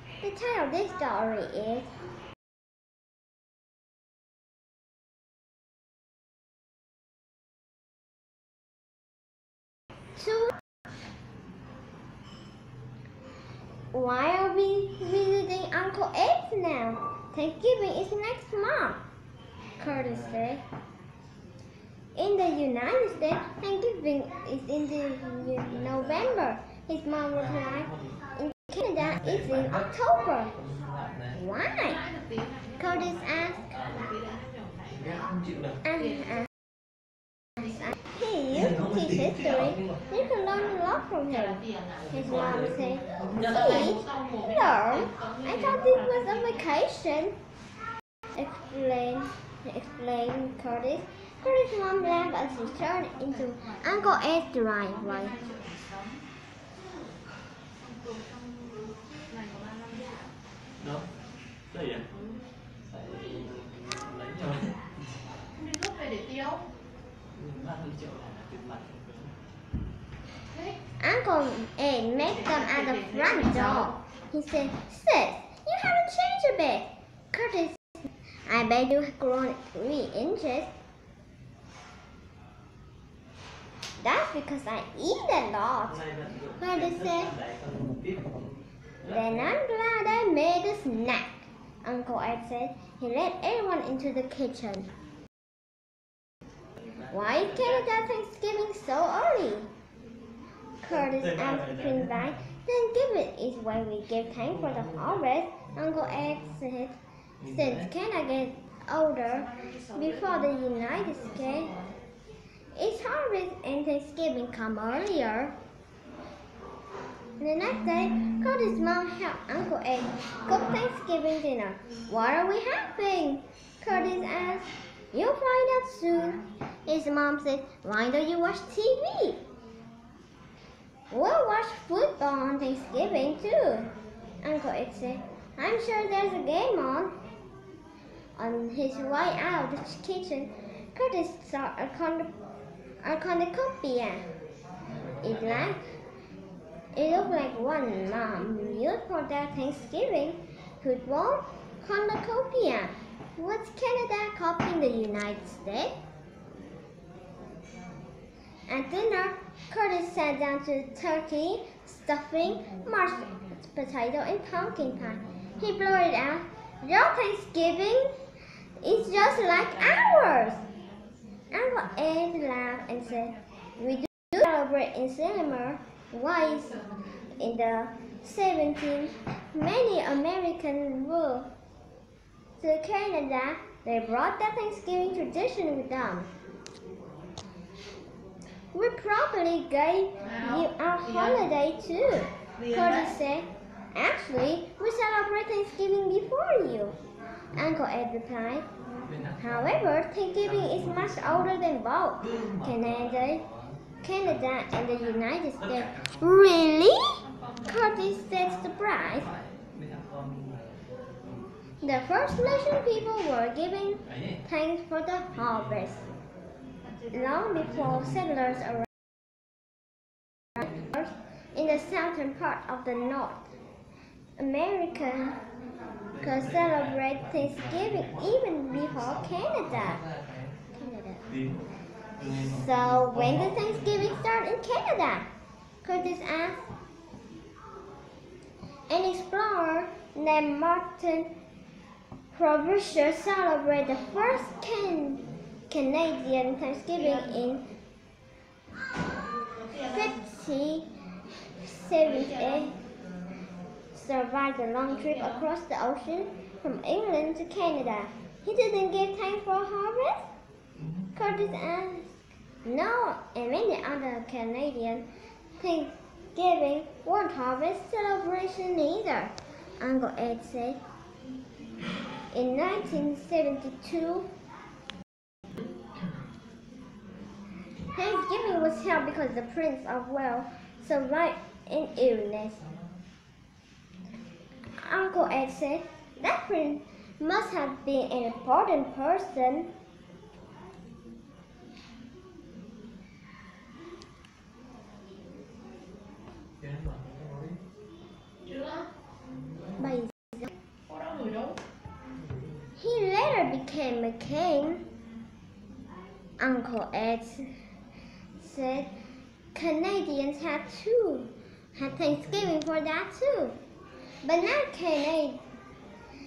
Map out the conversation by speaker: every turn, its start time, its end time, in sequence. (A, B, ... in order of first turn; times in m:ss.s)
0:00.2-0:01.9 A
0:10.2-0:10.5 A
0:13.9-0:19.0 A
0:19.8-0:20.6 A
0:22.2-0:30.6 A
0:30.7-0:31.3 B
0:31.3-0:32.1 A
0:32.0-0:32.9 C
0:32.8-0:33.9 A
0:33.7-0:35.1 C
0:34.9-0:35.8 B
0:35.8-0:36.5 A
0:37.6-0:47.4 A
0:38.6-0:39.0 B
0:41.6-0:42.0 C
0:43.7-0:44.4 C
0:45.1-0:45.4 C
0:48.3-0:55.4 A
0:55.3-0:56.2 C
0:57.8-1:00.3 C
1:00.8-1:01.0 B
1:01.7-1:02.1 B
1:02.8-1:04.8 B
1:05.5-1:06.6 C
1:07.3-1:09.3 B
1:11.0-1:20.7 A
1:12.6-1:13.9 C
1:24.0-1:26.0 A
1:26.1-1:28.4 B
1:26.6-1:27.3 A
1:29.0-1:34.9 A
1:37.1-1:39.7 A
1:40.8-1:51.7 A
1:51.6-1:51.9 C
1:52.7-1:55.6 A
1:57.4-2:09.4 A
2:11.1-2:17.2 A
2:18.4-2:22.3 A
2:23.0-2:24.2 A
2:25.2-2:25.9 A
2:26.9-2:36.0 A
2:38.7-2:48.2 A
2:48.8-2:50.6 A
2:51.5-2:56.8 A
2:57.4-3:01.5 A
3:02.6-3:06.3 A
3:08.7-3:17.0 A
3:17.5-3:18.7 A
3:19.1-3:19.4 B
3:19.4-3:23.4 A
3:24.0-3:29.3 A
3:27.3-3:27.6 C
3:29.6-3:30.8 B
3:31.8-3:36.1 A
3:37.1-3:38.9 A
3:40.6-3:43.5 A
3:44.4-3:45.4 A
3:46.2-3:50.0 A
3:50.0-3:50.5 B
3:50.7-3:51.3 A
3:52.3-3:55.3 A
3:55.8-3:56.6 A
3:58.9-4:01.3 A
4:02.3-4:07.6 A
4:09.7-4:10.9 A
4:11.6-4:12.8 A
4:13.9-4:20.3 A
4:21.1-4:22.1 A
4:22.6-4:25.1 A
4:25.6-4:30.8 A
4:32.3-4:34.3 A
4:37.9-4:42.6 A
4:44.7-4:49.7 A
4:56.6-4:57.6 B
4:58.4-4:58.9 C
4:59.8-5:00.5 A
5:00.9-5:01.6 C
5:02.8-5:04.8 A
5:06.4-5:07.5 A
5:08.4-5:08.9 A
5:09.5-5:13.6 A
5:14.2-5:15.4 A